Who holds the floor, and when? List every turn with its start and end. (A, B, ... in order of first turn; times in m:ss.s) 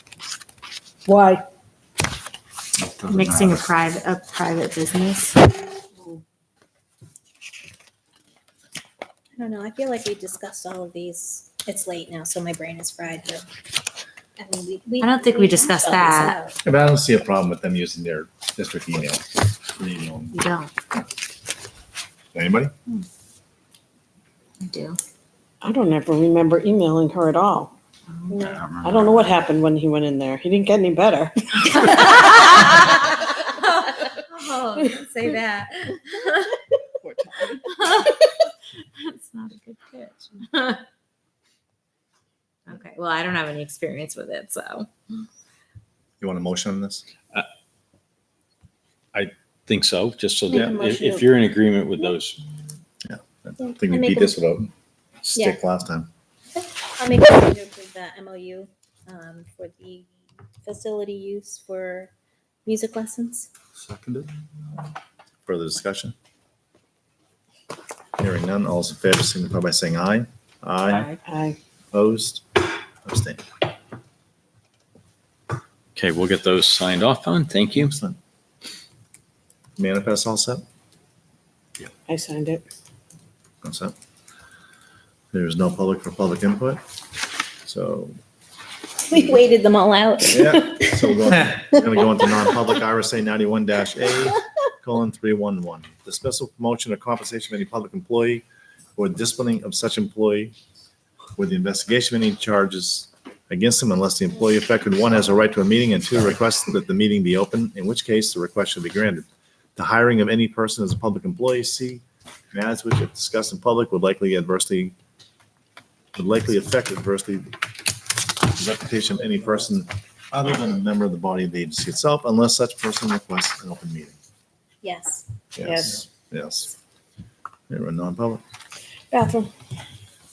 0:01.1-0:01.4 A
0:03.0-0:03.6 B
0:03.0-0:05.5 C
0:09.4-0:13.5 D
0:14.4-0:16.6 D
0:15.0-0:16.4 C
0:16.6-0:20.4 E
0:20.3-0:20.7 C
0:22.3-0:22.7 E
0:24.6-0:25.0 C
0:25.6-0:27.7 A
0:28.3-0:28.7 D
0:28.3-0:29.3 B
0:28.8-0:32.1 A
0:31.8-0:36.6 C
0:37.5-0:38.3 C
0:39.0-0:40.8 C
0:42.7-0:44.9 C
0:46.2-0:47.0 E
0:49.1-0:52.4 B
0:50.5-0:51.3 D
0:53.0-0:54.7 E
0:53.6-0:54.4 D
0:55.2-0:56.1 E
0:56.5-1:00.1 D
1:00.6-1:02.1 D
1:02.6-1:03.5 D
1:03.8-1:04.3 B
1:05.5-1:06.1 E
1:08.2-1:11.1 E
1:11.2-1:11.6 A
1:11.9-1:12.4 E
1:13.0-1:13.4 E
1:16.0-1:18.0 B
1:17.7-1:18.2 E
1:19.8-1:20.6 E
1:22.1-1:22.7 A
1:23.6-1:23.9 E
1:25.3-1:26.8 E
1:27.6-1:28.2 E
1:29.0-1:32.5 D
1:30.3-1:40.5 E
1:41.4-1:54.9 E
1:56.2-1:57.6 E
1:58.4-2:04.2 E
2:04.8-2:05.3 D
2:05.6-2:06.8 E
2:05.6-2:06.0 A
2:07.7-2:08.4 E
2:09.1-2:09.5 A